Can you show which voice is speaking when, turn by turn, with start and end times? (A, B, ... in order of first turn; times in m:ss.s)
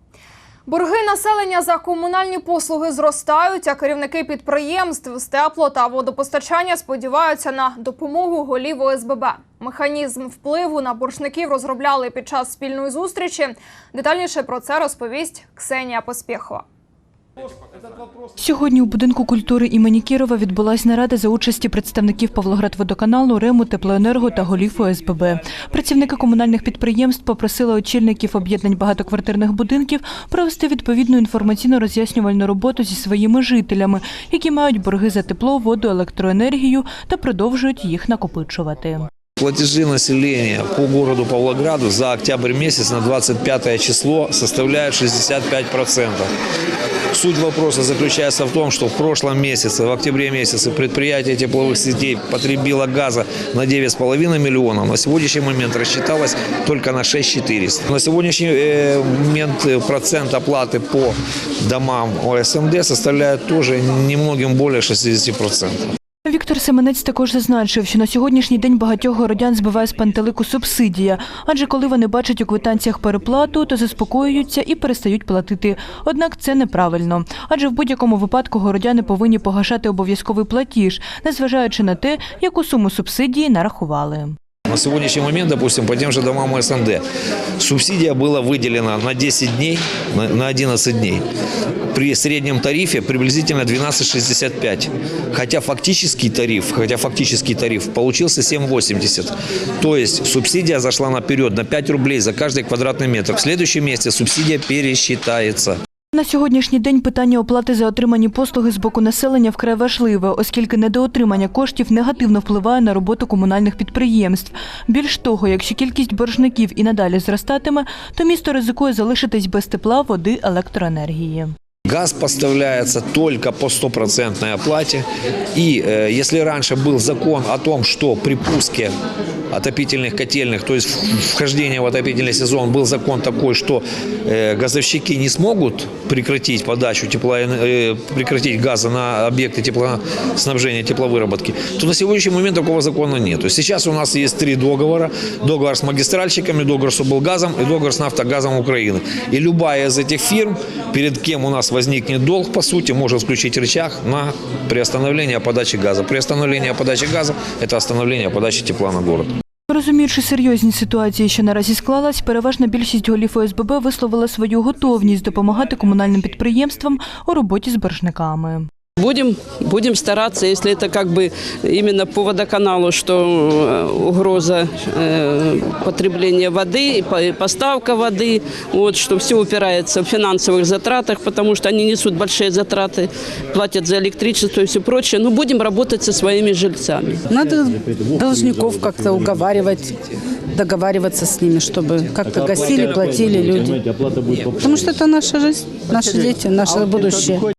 0:00.6-0:16.6 A
0:18.4-0:39.1 B
0:39.4-0:46.3 C
0:47.1-1:05.8 C
1:06.2-1:24.4 B
1:24.7-1:27.0 C
1:27.6-1:31.2 C
1:31.9-1:45.8 C
1:46.1-2:01.5 B
2:01.9-2:08.9 C
2:09.5-2:39.3 C
2:39.7-2:48.7 B
2:49.0-3:07.2 D
3:07.3-3:10.0 E
3:10.5-3:13.8 E
3:14.5-3:17.5 E